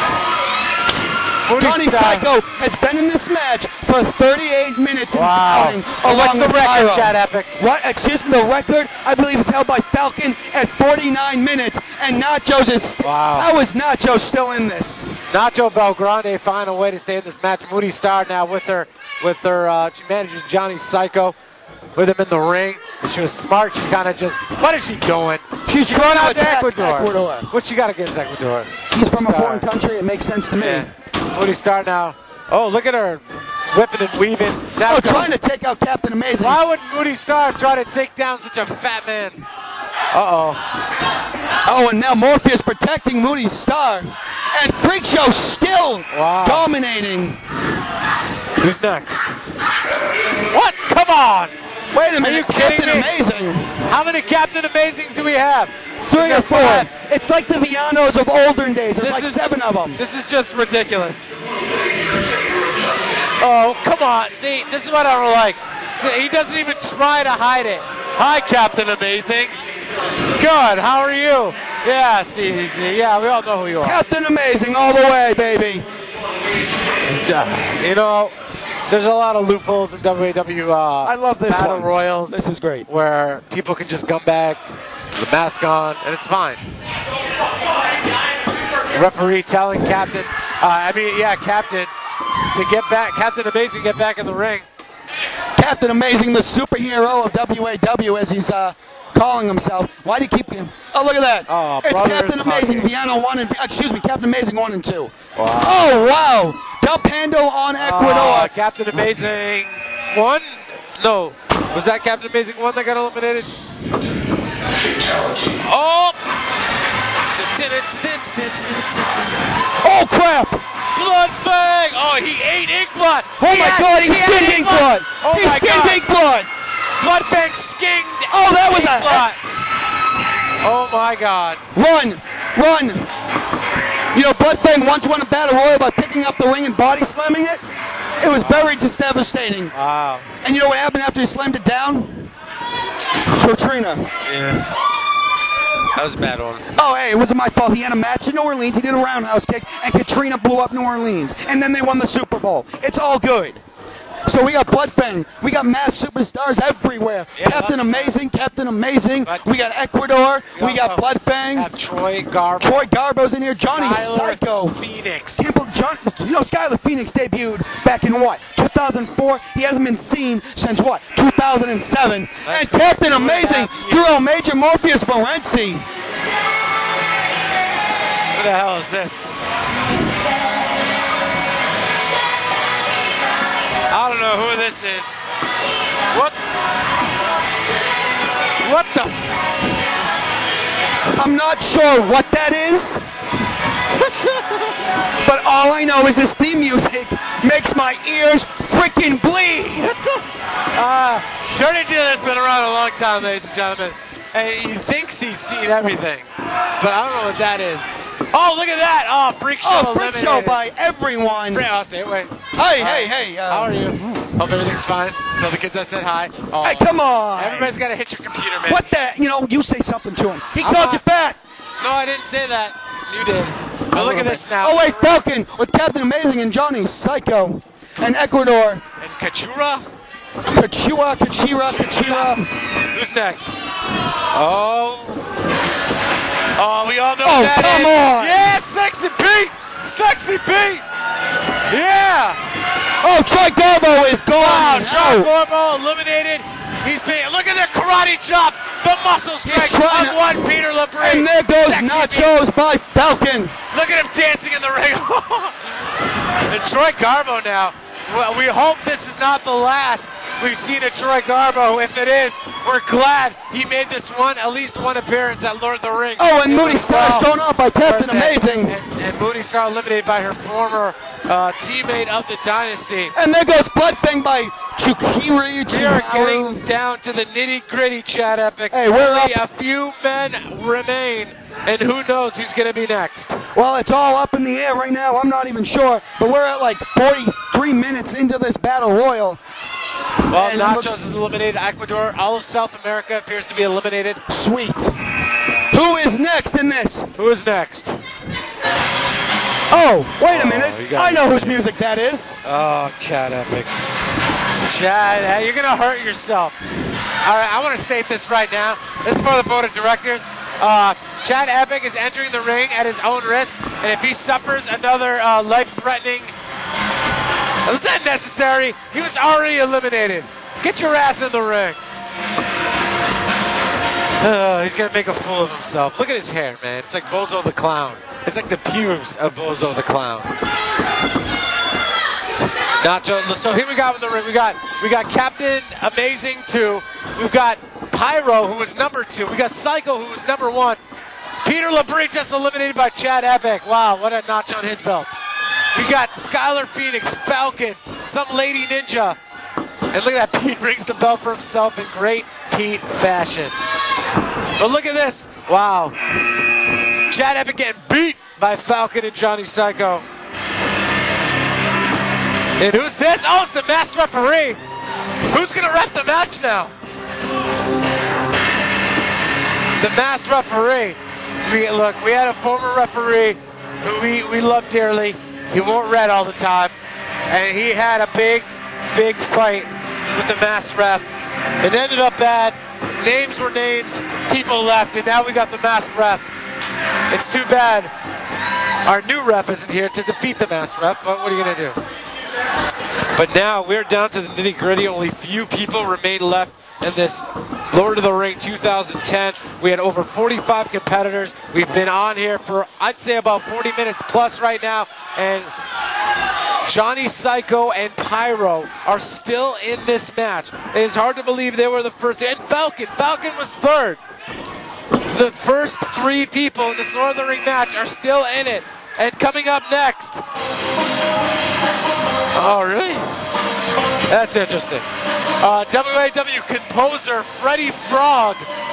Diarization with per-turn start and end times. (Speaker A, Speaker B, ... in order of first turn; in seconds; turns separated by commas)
Speaker A: 1.4-2.3, Speaker B: 1.5-15.2, Speaker A: 5.1-7.5, Speaker A: 13.0-13.5, Speaker A: 15.3-21.3, Speaker A: 21.9-29.6, Speaker B: 25.6-27.5, Speaker B: 28.9-30.9, Speaker A: 30.6-35.3, Speaker B: 34.8-36.6, Speaker A: 36.4-39.4, Speaker A: 40.1-40.6, Speaker B: 41.6-47.4, Speaker A: 46.1-46.7, Speaker A: 48.6-49.3, Speaker A: 50.5-51.5, Speaker B: 51.9-53.8, Speaker A: 52.2-53.1, Speaker A: 53.8-56.9, Speaker B: 56.0-60.0, Speaker A: 59.0-59.4, Speaker A: 60.0-61.3, Speaker A: 63.4-69.5, Speaker A: 70.4-74.0, Speaker B: 73.8-75.8, Speaker A: 77.1-78.3, Speaker A: 78.9-84.6, Speaker B: 81.0-82.9, Speaker A: 85.1-86.6, Speaker A: 88.9-91.9, Speaker A: 92.5-94.6, Speaker B: 95.6-108.5, Speaker A: 101.5-102.9, Speaker A: 105.3-105.9, Speaker A: 107.8-113.5, Speaker A: 115.6-116.2, Speaker A: 117.3-119.3, Speaker B: 119.8-120.6, Speaker A: 120.9-126.0, Speaker B: 123.4-126.5, Speaker A: 127.0-129.4, Speaker B: 128.3-129.3, Speaker A: 130.6-131.6, Speaker B: 131.7-133.1, Speaker B: 134.1-137.6, Speaker B: 138.2-139.7, Speaker A: 139.7-140.3, Speaker B: 140.4-142.3, Speaker B: 143.3-144.1, Speaker A: 144.2-144.7, Speaker A: 145.9-146.6, Speaker B: 146.8-153.6, Speaker B: 154.2-161.7, Speaker A: 157.3-158.3, Speaker A: 160.5-162.9, Speaker B: 162.6-164.8, Speaker A: 163.5-165.5, Speaker B: 165.4-175.8, Speaker A: 172.4-174.1, Speaker A: 178.3-179.3, Speaker A: 183.9-185.2, Speaker A: 186.1-186.4, Speaker A: 188.6-189.4, Speaker B: 191.2-193.0, Speaker A: 194.0-194.6, Speaker B: 195.2-200.0, Speaker A: 200.7-206.2, Speaker A: 206.8-210.6, Speaker B: 209.6-211.7, Speaker A: 211.5-218.9, Speaker B: 212.5-213.8, Speaker B: 216.6-217.8, Speaker B: 218.7-221.4, Speaker A: 220.6-221.0, Speaker A: 221.8-225.2, Speaker B: 223.9-228.8, Speaker A: 229.0-229.8, Speaker B: 230.5-232.5, Speaker A: 231.7-232.3, Speaker A: 232.9-233.5, Speaker A: 234.3-235.2, Speaker A: 236.6-240.8, Speaker B: 237.2-238.5, Speaker A: 241.7-242.4, Speaker B: 243.0-245.3, Speaker A: 244.3-252.3, Speaker B: 249.4-250.4, Speaker B: 251.0-253.5, Speaker A: 253.7-255.6, Speaker A: 256.5-273.1, Speaker B: 266.2-268.7, Speaker B: 273.1-276.6, Speaker A: 275.7-283.4, Speaker B: 278.7-279.4, Speaker B: 283.5-289.4, Speaker A: 290.3-294.2, Speaker B: 290.3-291.1, Speaker B: 294.3-295.0, Speaker B: 295.7-297.1, Speaker A: 297.1-298.0, Speaker B: 299.7-302.3, Speaker A: 300.2-301.6, Speaker A: 302.4-303.7, Speaker A: 304.6-306.5, Speaker A: 307.2-316.3, Speaker A: 317.6-321.8, Speaker A: 324.2-330.3, Speaker A: 332.8-340.8, Speaker A: 341.4-345.1, Speaker A: 345.7-349.2, Speaker A: 349.9-353.5, Speaker A: 354.6-355.9, Speaker A: 357.1-360.0, Speaker A: 362.6-364.6, Speaker A: 365.3-366.7, Speaker A: 369.8-376.7, Speaker A: 377.3-381.1, Speaker A: 381.6-386.3, Speaker A: 387.1-387.9, Speaker A: 388.8-391.8, Speaker A: 393.1-405.5, Speaker A: 406.6-414.0, Speaker A: 415.1-420.2, Speaker A: 422.3-423.1, Speaker A: 424.1-424.9, Speaker A: 425.4-428.5